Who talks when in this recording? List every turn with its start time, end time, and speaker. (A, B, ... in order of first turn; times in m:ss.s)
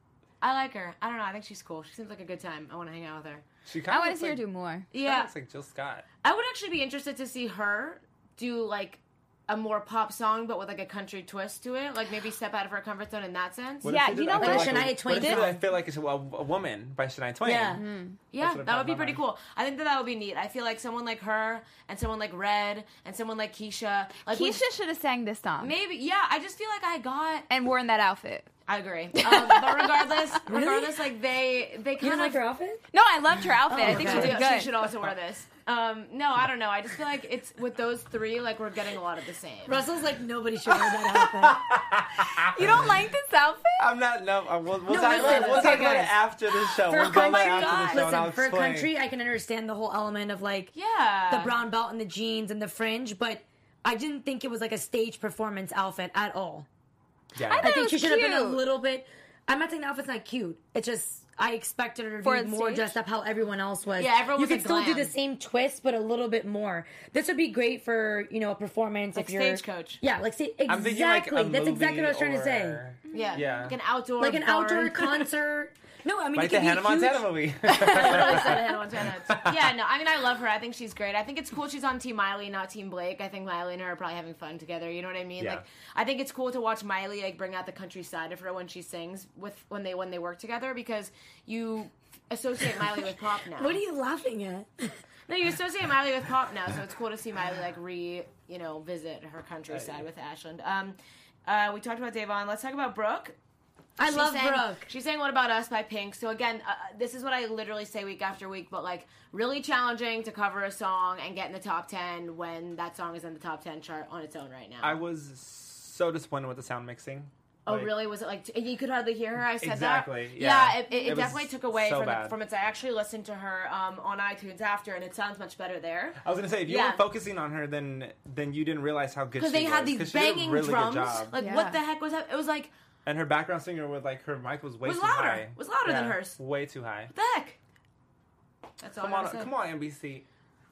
0:00.4-0:03.4 A
0:03.7-0:04.4 B
0:03.9-0:04.9 C
0:04.9-0:05.3 A
0:04.9-0:06.1 B
0:06.2-0:14.7 A
0:13.8-0:17.8 B
0:13.8-0:15.5 C
0:14.4-0:15.6 D
0:17.4-0:17.8 D
0:17.8-0:18.2 C
0:18.3-0:24.6 A
0:18.4-0:19.2 B
0:24.3-0:25.7 C
0:25.6-0:27.5 A
0:27.5-0:28.5 C
0:28.7-0:32.4 A
0:29.2-0:30.4 C
0:30.5-0:31.0 D
0:32.0-0:32.8 D
0:32.9-0:34.7 C
0:33.7-0:34.4 D
0:33.8-0:39.8 A
0:39.7-0:41.6 D
0:40.7-0:43.0 B
0:42.4-0:43.9 C
0:43.8-0:48.9 B
0:44.9-0:50.7 D
0:45.0-0:46.1 A
0:47.0-0:48.0 A
0:50.7-0:51.6 A
0:51.3-0:56.7 D
0:57.4-0:57.8 B
0:57.4-0:58.6 C
0:57.6-1:12.8 D
1:02.2-1:03.0 C
1:04.0-1:05.1 A
1:09.1-1:10.0 A
1:10.7-1:13.8 B
1:13.1-1:13.5 C
1:13.1-1:15.3 A
1:14.2-1:18.3 D
1:16.4-1:18.7 B
1:17.7-1:33.8 A
1:19.3-1:19.6 B
1:33.6-1:35.0 D
1:35.3-1:43.4 A
1:44.0-1:44.9 D
1:44.0-1:55.0 A
1:54.8-1:57.9 B
1:57.7-2:07.0 A
1:59.6-2:02.4 B
2:00.9-2:01.2 C
2:06.2-2:11.3 B
2:09.4-2:12.7 A
2:11.4-2:11.8 C
2:13.1-2:17.1 B
2:14.8-2:16.4 A
2:17.1-2:17.6 A
2:18.8-2:19.5 A
2:19.0-2:20.2 B